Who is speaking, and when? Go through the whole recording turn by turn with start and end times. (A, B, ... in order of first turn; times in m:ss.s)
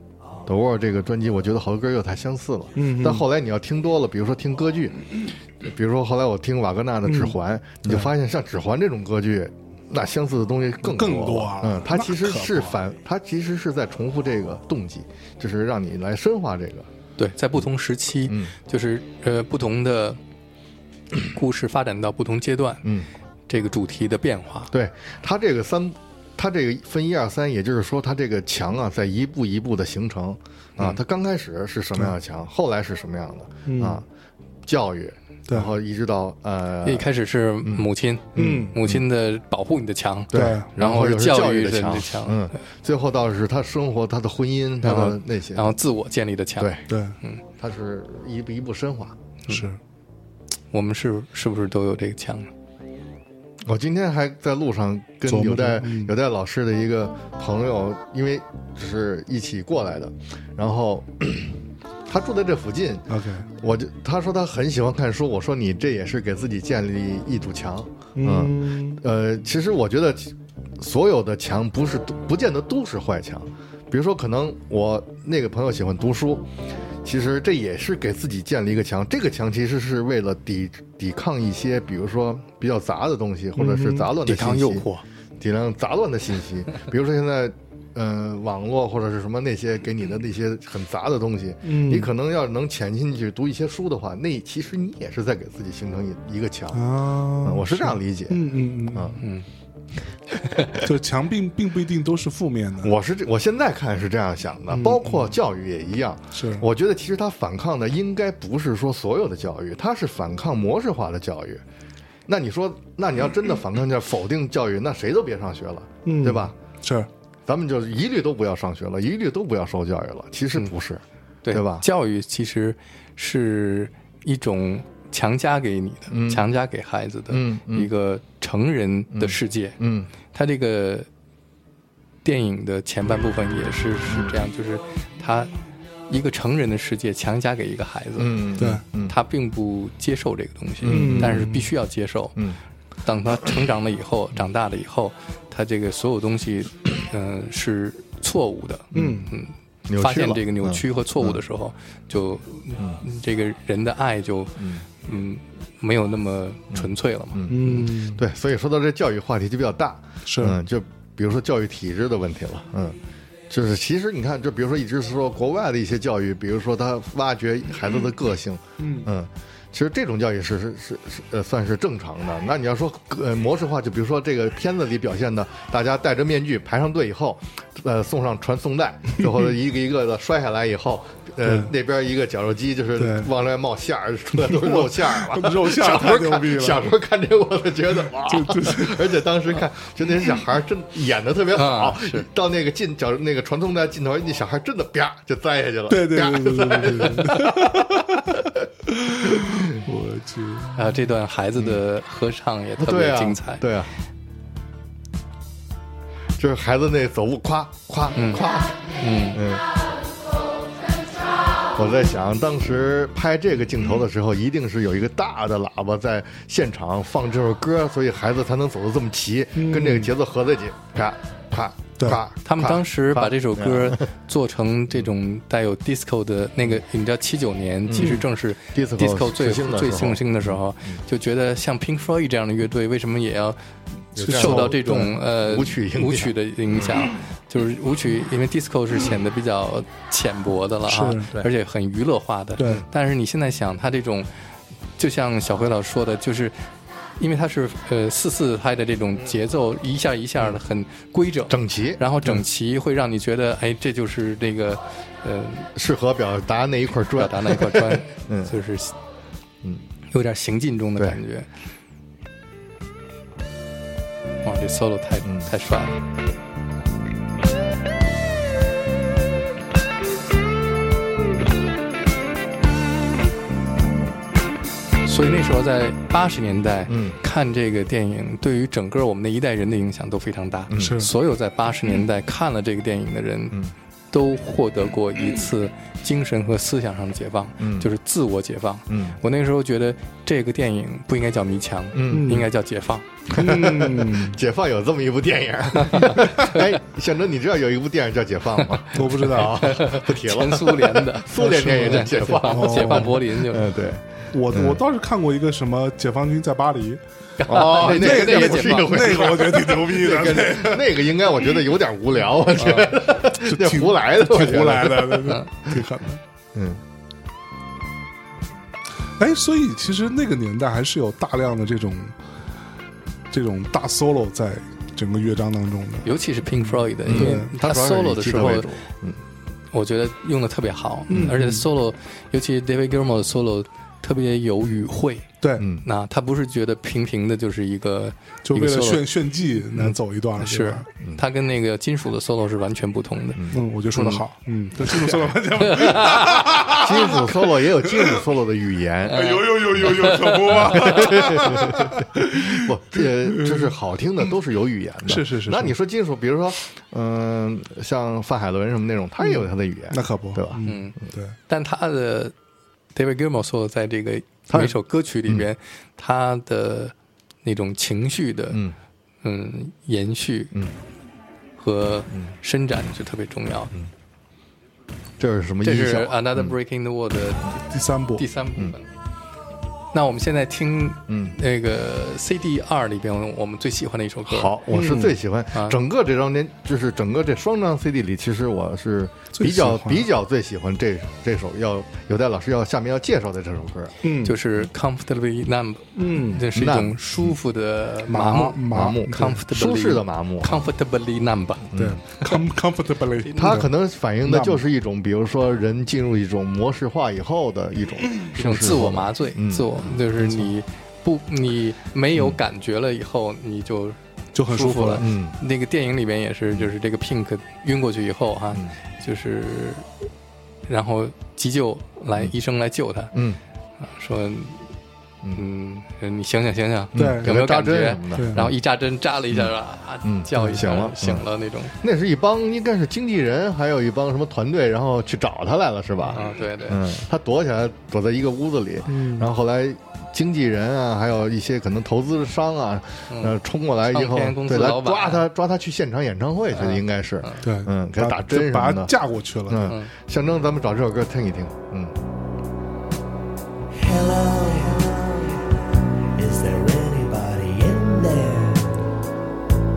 0:00.4-0:16.9 A
0:02.8-0:03.2 B
0:07.0-0:08.1 B
0:10.8-0:12.8 B
0:17.2-0:20.2 C
0:18.3-0:18.5 A
0:21.3-0:22.9 C
0:23.5-0:24.7 C
0:24.7-0:34.0 A
0:33.6-0:34.0 B
0:34.6-0:37.1 A
0:35.5-0:35.7 B
0:36.8-0:42.5 C
0:37.6-0:39.0 A
0:38.4-0:38.8 B
0:40.3-0:45.7 A
0:40.3-0:40.7 B
0:44.8-0:47.4 C
0:46.6-0:46.8 A
0:46.9-0:47.2 B
0:47.6-0:49.2 A
0:49.5-0:49.8 B
0:50.7-0:52.5 C
0:53.6-1:16.4 A
0:55.3-0:56.1 B
1:03.1-1:03.5 B
1:08.2-1:09.0 B
1:17.0-1:24.8 A
1:23.6-1:24.1 B
1:24.2-1:25.0 C
1:25.4-1:36.8 A
1:31.6-1:32.1 B
1:36.7-1:39.2 B
1:37.4-1:39.2 A
1:39.2-1:39.4 C
1:40.8-1:43.0 B
1:42.8-1:51.6 A
1:44.7-1:45.3 B
1:46.3-1:46.7 B
1:52.3-1:56.5 A
1:56.0-1:57.1 B
1:57.5-2:01.8 A
2:01.4-2:09.8 C
2:06.1-2:06.4 A
2:07.3-2:07.9 A
2:09.1-2:10.1 A
2:10.3-2:11.1 C
2:12.2-2:15.5 C
2:16.1-2:18.4 C
2:18.2-2:19.1 A
2:18.6-2:18.8 B
2:19.0-2:22.4 C
2:20.8-2:21.5 A
2:20.9-2:21.6 B
2:23.0-2:37.8 C
2:28.9-2:29.3 A
2:28.9-2:29.3 B
2:29.9-2:31.4 A
2:34.6-2:34.8 A
2:36.7-2:43.0 A
2:37.5-2:38.2 B
2:40.2-2:40.6 B
2:43.5-3:18.4 A
2:48.8-2:49.1 B
3:01.4-3:01.7 B
3:03.0-3:03.3 B
3:04.3-3:06.9 B
3:08.0-3:09.2 B
3:11.5-3:12.2 C
3:15.9-3:20.8 B
3:20.8-3:23.6 C
3:22.8-3:23.9 A
3:26.4-3:29.6 A
3:28.2-3:28.4 C
3:29.0-3:29.4 C
3:31.7-3:44.0 A
3:39.5-3:40.1 B
3:42.4-3:53.6 C
3:47.9-3:48.2 A
3:48.7-3:51.0 A
3:54.1-3:57.0 A
3:54.2-4:04.3 C
3:54.2-3:55.1 B
4:00.9-4:01.5 B
4:02.6-4:02.8 B
4:05.0-4:06.6 C
4:07.2-4:15.7 C
4:11.5-4:12.0 A
4:15.8-4:18.5 A
4:17.1-4:18.9 C
4:20.1-4:21.5 C
4:24.4-4:26.0 C
4:35.0-4:43.6 C
4:36.9-4:37.2 A
4:40.7-4:41.0 A
4:40.8-4:41.1 B
4:44.1-4:53.1 C
4:47.6-4:47.9 A
4:48.9-4:49.2 A
4:51.9-4:52.4 A
4:52.1-4:52.5 B
4:53.3-5:04.8 A
4:53.3-4:54.4 B
4:55.8-4:56.6 C
4:58.9-4:59.6 B
4:59.2-5:03.7 C
5:01.4-5:03.2 B
5:04.3-5:07.0 B
5:07.4-5:09.2 C
5:07.5-5:15.8 A
5:07.6-5:11.0 B
5:12.6-5:12.9 C
5:13.3-5:16.2 B
5:16.5-5:16.8 A
5:19.2-5:22.2 B
5:23.3-5:27.5 B
5:26.0-5:28.7 C
5:27.0-5:29.2 A
5:29.7-5:35.3 C
5:31.1-5:31.6 B
5:35.6-5:35.8 A
5:35.8-5:39.1 C
5:38.4-5:40.9 B
5:39.8-5:44.2 C
5:43.5-5:48.2 B
5:45.6-5:46.4 C
5:46.7-6:00.6 A
5:49.1-5:51.0 C
5:49.1-5:53.7 B
5:55.0-5:55.8 B
5:59.2-6:01.4 B
6:00.6-6:01.0 C
6:01.5-6:02.3 C
6:02.9-6:08.6 C
6:04.5-6:04.8 A
6:09.2-6:10.5 C
6:11.6-6:13.7 C
6:15.2-6:16.5 A
6:15.6-6:17.6 C
6:17.6-6:18.2 B
6:18.2-6:18.8 C
6:19.9-6:24.6 C
6:21.1-6:21.4 A
6:24.3-6:33.9 A
6:24.7-6:25.2 B
6:25.5-6:25.8 C
6:29.3-6:30.1 B
6:34.0-6:34.4 B
6:34.2-6:41.6 C
6:36.0-6:36.4 B
6:36.5-6:37.4 A
6:38.1-6:39.4 B
6:38.7-6:40.6 A
6:41.7-6:42.0 A
6:41.8-6:43.7 B
6:43.4-6:50.4 A
6:44.2-6:44.6 B
6:48.3-6:59.8 C
6:54.3-6:55.1 B
6:55.0-6:55.4 A
7:00.7-7:03.1 C
7:03.1-7:03.4 A
7:03.8-7:04.6 C
7:05.4-7:11.7 C
7:06.9-7:08.5 A
7:06.9-7:07.3 B
7:08.1-7:08.5 B
7:10.0-7:11.2 A
7:11.8-7:28.9 A
7:16.1-7:16.8 C
7:18.9-7:19.3 B
7:23.1-7:23.4 C
7:23.9-7:25.2 C
7:26.5-7:27.4 C
7:27.4-7:29.7 B
7:29.5-7:31.9 A
7:33.7-7:38.9 D